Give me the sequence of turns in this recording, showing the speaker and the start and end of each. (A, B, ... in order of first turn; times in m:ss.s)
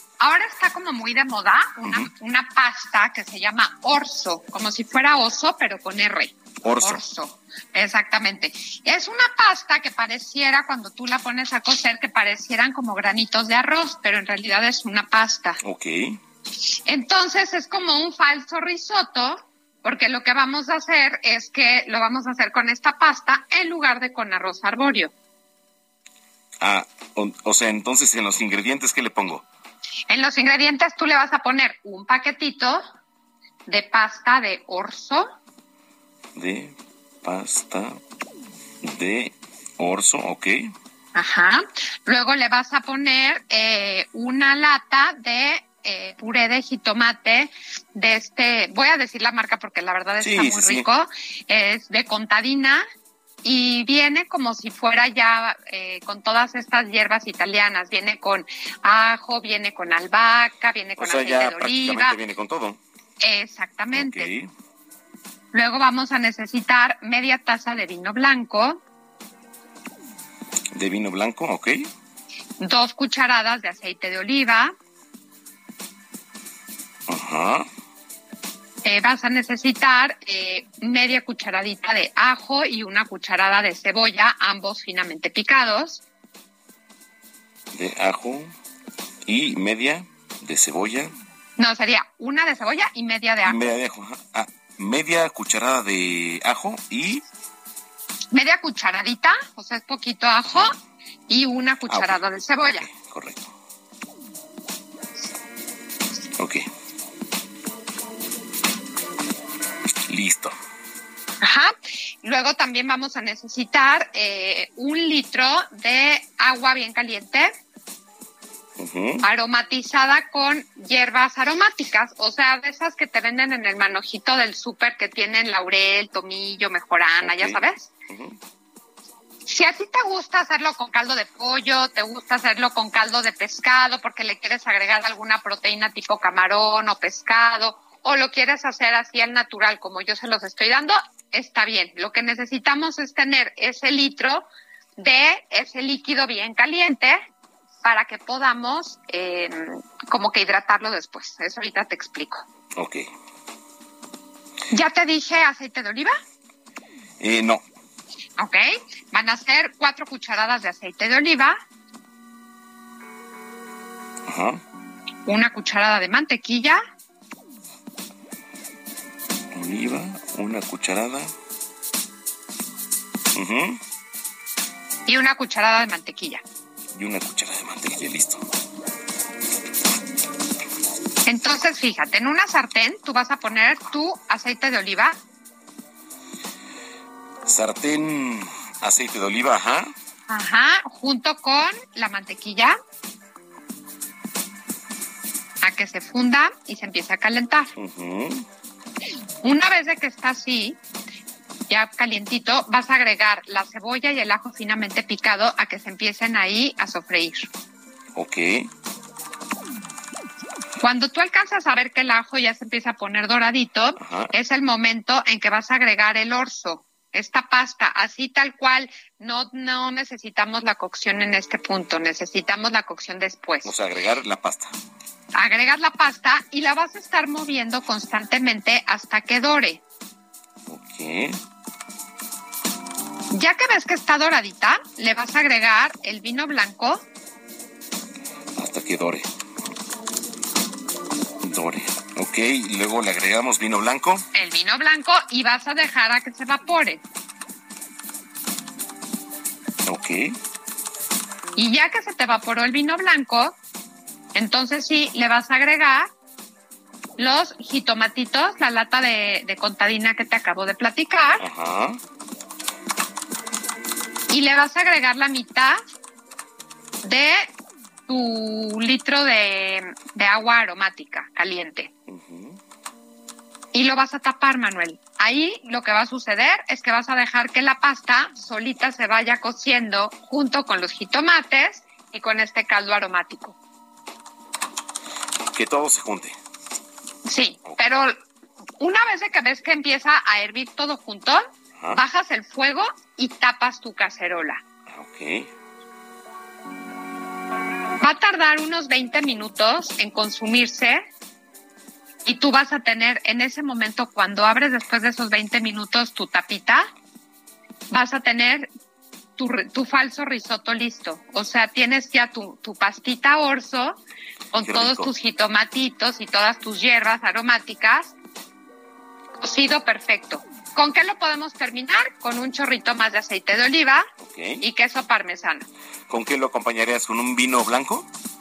0:00.2-0:15.6 A
0:01.8-0:02.1 B
0:06.6-0:07.0 B
0:15.6-0:16.2 B
0:16.9-0:25.1 A
0:26.6-0:29.4 B
0:30.1-0:32.8 A
0:33.7-0:35.3 A
0:36.4-0:38.0 B
0:38.8-0:40.7 B
0:41.1-0:52.8 A
0:50.2-0:50.8 B
0:53.4-1:02.2 A
1:01.0-1:02.8 B
1:03.2-1:04.3 A
1:03.9-1:04.5 B
1:05.5-1:08.8 A
1:10.7-1:11.9 B
1:12.6-1:14.7 A
1:17.1-1:17.7 B
1:18.8-1:26.0 A
1:27.7-1:28.5 B
1:29.2-1:31.1 B
1:31.6-1:33.6 A
1:33.4-1:37.2 B
1:38.3-1:40.7 A
1:41.3-1:42.8 A
1:41.9-1:43.5 B
1:46.4-1:46.6 B
1:50.1-1:50.5 B
1:51.4-1:57.5 A
1:58.8-1:59.2 B
1:59.2-2:07.9 A
2:07.2-2:08.3 B
2:09.4-2:27.2 A
2:27.8-2:32.4 A
2:32.8-2:33.0 B
2:34.7-2:36.1 A
2:37.2-2:37.6 B
2:38.4-2:41.6 A
2:44.3-2:44.6 B
2:45.2-2:46.8 A
2:49.5-2:51.3 B
2:53.3-2:53.8 B
2:55.1-2:56.4 A
2:57.0-2:58.4 B
3:01.2-3:05.2 A
3:07.4-3:09.9 B
3:10.3-3:12.8 A
3:15.6-3:17.7 A
3:17.8-3:18.4 B
3:19.4-3:20.8 A
3:21.7-3:27.5 A
3:28.1-3:28.7 B
3:30.8-3:43.7 A
3:34.0-3:34.3 B
3:43.6-3:44.7 B
3:45.3-3:49.8 A
3:50.7-3:51.4 B
3:53.3-3:57.0 A
3:58.6-3:59.2 B
4:01.4-4:04.2 B
4:04.3-4:07.0 A
4:09.8-4:10.3 B
4:11.6-4:13.6 A
4:14.3-4:16.1 A
4:17.2-4:21.4 A
4:21.4-4:22.0 B
4:24.3-4:25.8 A
4:27.0-4:27.5 A
4:28.1-4:31.9 A
4:32.1-4:32.6 B
4:33.7-4:43.6 A
4:45.5-4:46.3 B
4:47.3-4:48.2 A
4:48.8-4:54.6 A
4:54.9-4:55.5 B
4:58.0-5:01.0 A
5:02.2-5:06.9 A
5:07.9-5:08.7 A
5:09.4-5:14.0 A
5:14.5-5:18.1 A
5:14.6-5:15.1 B
5:19.4-5:24.1 A
5:24.2-5:24.6 B
5:24.6-5:25.6 A
5:26.1-5:28.1 B